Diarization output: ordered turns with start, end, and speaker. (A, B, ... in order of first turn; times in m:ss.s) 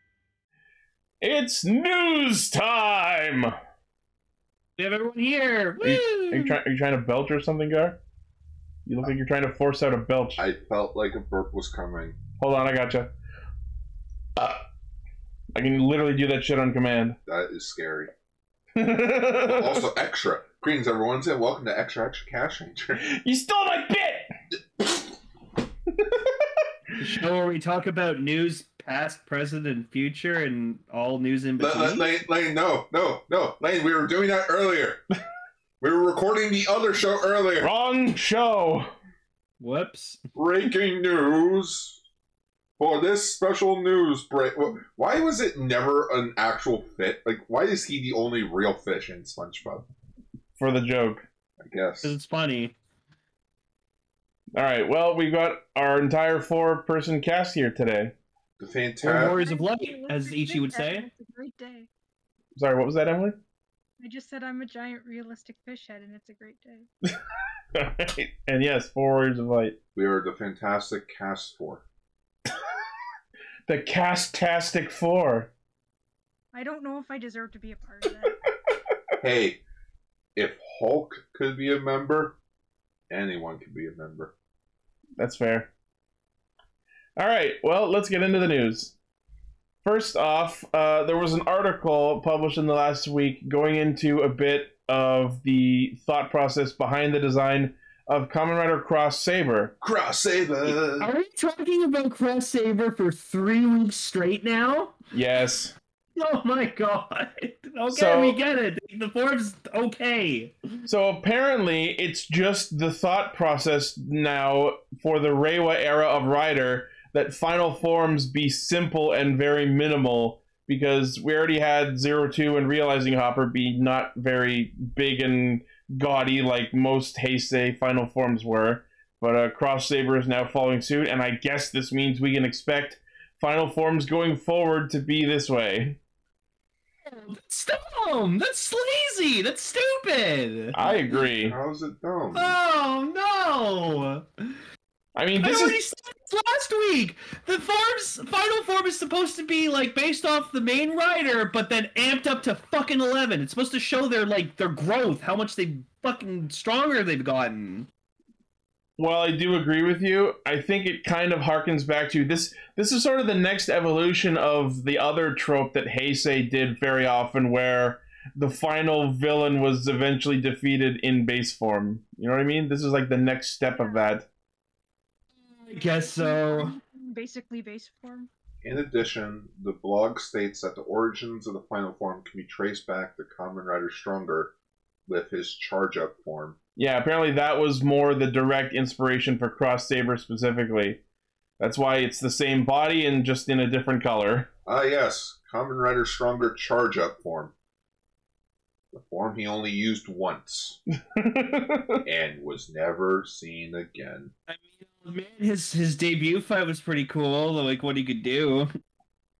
0:01.2-0:03.5 A
0:04.8-0:06.6 B
0:05.8-0:08.0 A
0:08.8-0:10.4 A
0:10.4-0:12.2 C
0:12.4-0:13.1 A
0:14.4-0:14.6 A
0:15.5-0:17.2 A
0:17.3-0:18.1 C
0:18.8-0:19.8 A
0:19.4-0:23.0 C
0:23.0-0:24.3 A
0:27.0-0:32.1 B
0:31.6-0:35.0 C
0:35.8-0:37.7 C
0:37.6-0:38.9 A
0:39.6-0:40.2 B
0:40.3-0:42.0 C
0:42.8-0:49.8 C
0:50.6-0:51.2 A
0:51.6-0:52.1 C
0:52.0-0:52.7 B
0:54.6-0:58.1 A
0:58.6-0:59.4 C
0:59.0-1:01.1 B
0:59.3-1:01.9 D
1:02.6-1:03.4 A
1:04.0-1:06.9 D
1:07.7-1:09.8 A
1:09.9-1:11.8 C
1:13.7-1:15.5 A
1:16.5-1:18.3 D
1:19.2-1:19.6 C
1:20.4-1:22.4 C
1:23.1-1:24.3 C
1:25.2-1:25.7 A
1:27.2-1:28.9 A
1:29.8-1:39.7 A
1:39.8-1:41.1 C
1:40.6-1:45.0 B
1:45.1-1:45.7 A
1:46.2-1:50.5 B
1:47.9-1:48.4 A
1:50.8-2:16.0 A
2:17.0-2:20.8 B
2:20.7-2:21.6 A
2:21.4-2:22.6 C
2:22.3-2:24.6 B
2:25.2-2:25.8 A
2:25.4-2:37.9 B
2:39.0-2:54.2 A
2:53.7-2:54.0 D
2:55.4-2:56.8 B
2:55.8-2:58.3 D
2:58.6-3:04.5 C
3:05.1-3:06.6 C
3:06.8-3:11.0 A
3:11.6-3:14.5 A
3:14.6-3:17.5 C
3:18.9-3:20.8 C
3:21.1-3:22.0 A
3:22.0-3:24.3 C
3:24.5-3:28.7 B